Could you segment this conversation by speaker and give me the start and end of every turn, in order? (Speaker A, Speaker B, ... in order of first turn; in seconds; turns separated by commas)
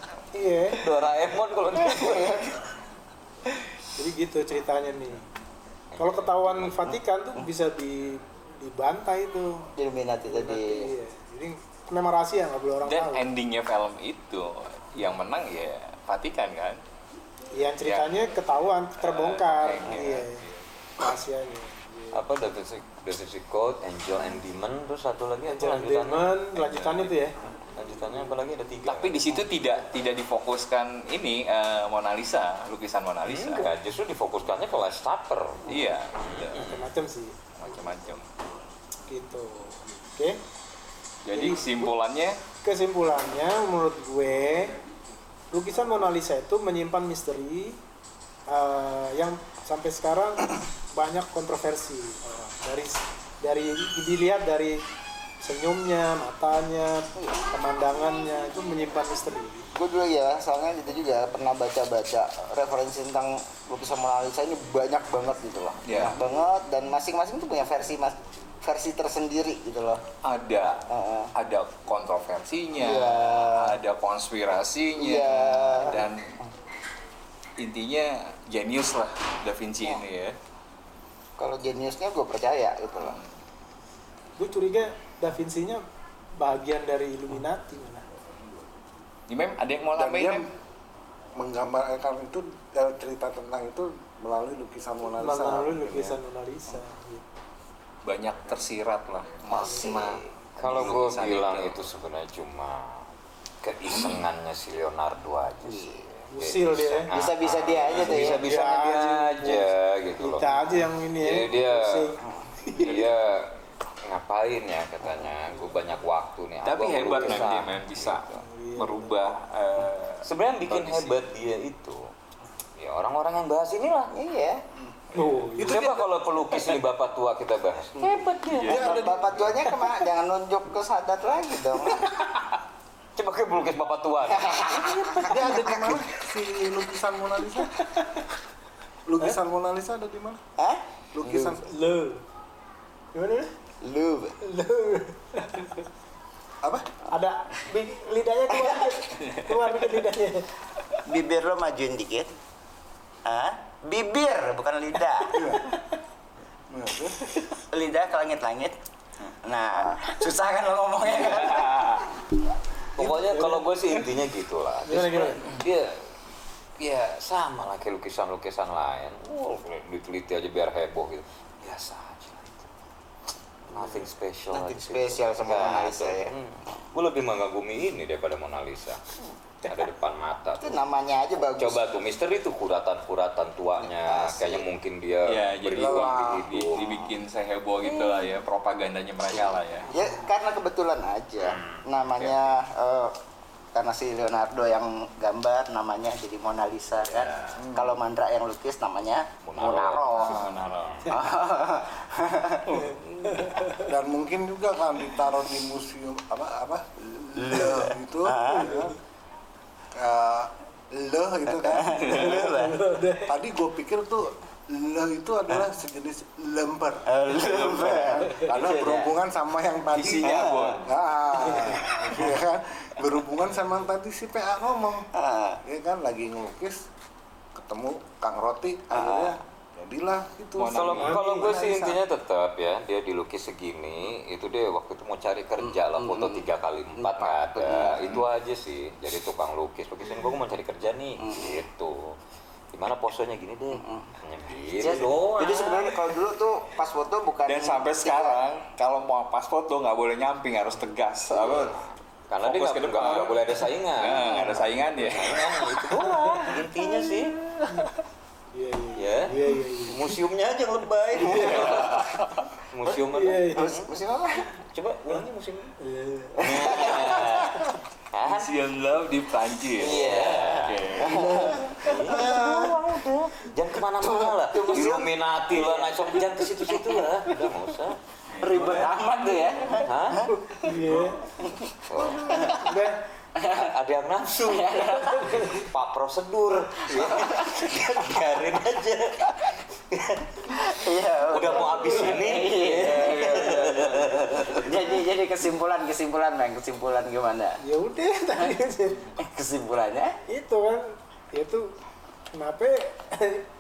Speaker A: 0.3-0.8, Speaker B: 0.7-2.5, Speaker C: 1.8-2.5, Speaker A: 4.0-5.2, Speaker B: 5.9-6.9, Speaker A: 6.0-9.7, Speaker C: 9.8-10.9, Speaker A: 10.3-13.2, Speaker D: 12.9-16.8, Speaker A: 17.6-20.4, Speaker D: 17.8-18.1, Speaker D: 19.0-20.6, Speaker C: 19.9-20.2, Speaker A: 21.0-22.2, Speaker B: 22.1-26.9, Speaker A: 25.5-27.3, Speaker D: 26.7-27.0, Speaker B: 27.8-29.3, Speaker D: 28.9-33.7, Speaker B: 33.3-36.9, Speaker D: 35.7-36.6, Speaker A: 36.5-37.4, Speaker D: 37.6-38.2, Speaker A: 39.1-40.4, Speaker D: 41.2-42.4, Speaker A: 41.3-41.9, Speaker A: 42.6-44.8, Speaker A: 45.5-47.8, Speaker A: 48.5-54.8, Speaker A: 55.4-59.7, Speaker C: 59.8-70.0, Speaker D: 65.8-66.2, Speaker D: 70.2-76.4, Speaker C: 70.9-71.3, Speaker C: 72.8-73.8, Speaker C: 75.0-76.1, Speaker D: 77.6-80.4, Speaker C: 81.4-83.2, Speaker D: 83.0-83.3, Speaker A: 84.4-85.8, Speaker A: 86.4-88.1, Speaker D: 89.3-90.5, Speaker E: 90.0-90.5, Speaker E: 91.4-95.9, Speaker A: 95.2-97.2, Speaker D: 95.9-96.2, Speaker D: 98.0-101.9, Speaker C: 99.5-100.2, Speaker B: 100.6-103.1, Speaker B: 103.6-112.2, Speaker C: 105.6-106.0, Speaker A: 106.3-107.1, Speaker C: 107.1-108.5, Speaker D: 108.0-108.4, Speaker A: 108.0-113.0, Speaker C: 112.2-112.5, Speaker B: 112.7-118.2, Speaker D: 112.8-113.1, Speaker D: 116.7-121.2, Speaker A: 118.4-119.1, Speaker B: 120.2-122.0, Speaker B: 122.8-124.2, Speaker C: 124.1-124.6, Speaker A: 125.1-126.0, Speaker D: 125.2-125.7, Speaker B: 125.6-128.2, Speaker E: 125.6-126.0, Speaker C: 128.0-132.1, Speaker D: 128.4-129.5, Speaker E: 128.7-129.3, Speaker B: 133.2-135.1, Speaker C: 134.4-136.0, Speaker A: 135.1-135.8, Speaker E: 135.1-137.7, Speaker A: 137.6-138.3, Speaker E: 139.1-140.4, Speaker C: 140.6-141.6, Speaker E: 141.1-141.7, Speaker A: 141.7-142.2, Speaker A: 143.1-143.5, Speaker C: 143.8-144.4, Speaker A: 144.4-145.8, Speaker E: 146.6-146.9, Speaker A: 147.1-150.5, Speaker D: 149.2-149.5, Speaker C: 151.0-152.3, Speaker C: 153.2-155.5, Speaker E: 155.3-155.7, Speaker E: 156.7-157.3, Speaker C: 157.7-161.9, Speaker D: 161.1-162.0, Speaker B: 163.0-166.0, Speaker A: 164.9-165.4, Speaker B: 166.8-172.7, Speaker B: 173.7-179.0, Speaker C: 173.7-176.3, Speaker B: 179.7-180.8, Speaker C: 180.6-181.9, Speaker B: 181.5-186.9, Speaker C: 183.8-184.7, Speaker D: 185.3-189.9, Speaker E: 185.7-186.5, Speaker C: 187.9-188.2, Speaker C: 189.9-193.1, Speaker B: 191.4-191.8, Speaker D: 192.2-192.4, Speaker C: 193.7-200.5, Speaker B: 197.1-197.6, Speaker E: 197.6-198.0, Speaker B: 199.4-201.2, Speaker D: 200.1-201.1, Speaker C: 201.1-202.8, Speaker D: 202.7-203.0, Speaker A: 202.7-203.9, Speaker B: 202.8-203.8, Speaker E: 203.9-208.9, Speaker C: 207.3-208.8, Speaker A: 208.5-208.9, Speaker E: 209.9-212.6, Speaker C: 211.6-213.0, Speaker D: 211.9-212.4, Speaker A: 212.5-213.3, Speaker E: 213.2-225.1, Speaker C: 217.1-219.1, Speaker D: 217.4-218.3, Speaker D: 219.9-220.9, Speaker C: 220.1-220.8, Speaker C: 221.6-222.2, Speaker C: 225.1-225.6, Speaker E: 225.6-226.8, Speaker E: 227.6-232.0, Speaker C: 228.9-229.3, Speaker D: 230.6-231.2, Speaker B: 230.7-242.2, Speaker A: 231.0-231.6, Speaker C: 235.6-238.1, Speaker C: 241.2-241.6, Speaker B: 242.7-246.0, Speaker C: 243.7-244.1, Speaker C: 244.7-248.4, Speaker D: 247.5-251.8, Speaker C: 251.3-251.8, Speaker B: 252.3-257.4, Speaker D: 252.4-256.1, Speaker C: 254.2-254.7, Speaker A: 255.9-256.6, Speaker C: 256.0-257.1, Speaker A: 257.7-257.9, Speaker A: 258.5-260.1, Speaker B: 258.9-262.1, Speaker A: 261.2-261.9, Speaker C: 261.3-261.6, Speaker D: 261.6-262.4, Speaker B: 262.7-263.9, Speaker A: 263.1-263.8, Speaker C: 263.5-264.5, Speaker B: 264.5-265.7, Speaker A: 265.8-266.8, Speaker B: 266.4-268.5, Speaker C: 266.4-267.5, Speaker D: 268.2-270.1, Speaker C: 269.7-272.8, Speaker B: 269.8-278.0, Speaker D: 270.7-271.6, Speaker C: 273.8-277.3, Speaker D: 278.4-279.0, Speaker C: 278.4-280.7, Speaker B: 279.8-280.3, Speaker A: 280.3-281.2, Speaker C: 281.4-282.7, Speaker B: 281.9-282.6, Speaker A: 282.3-283.0, Speaker C: 283.4-283.7, Speaker B: 283.5-289.4, Speaker C: 284.4-285.6, Speaker C: 286.9-287.7, Speaker C: 289.9-297.6, Speaker B: 291.3-294.4, Speaker A: 291.5-292.2, Speaker D: 292.4-294.7, Speaker A: 297.6-299.1, Speaker C: 299.2-300.2, Speaker A: 300.3-301.7, Speaker A: 302.3-303.5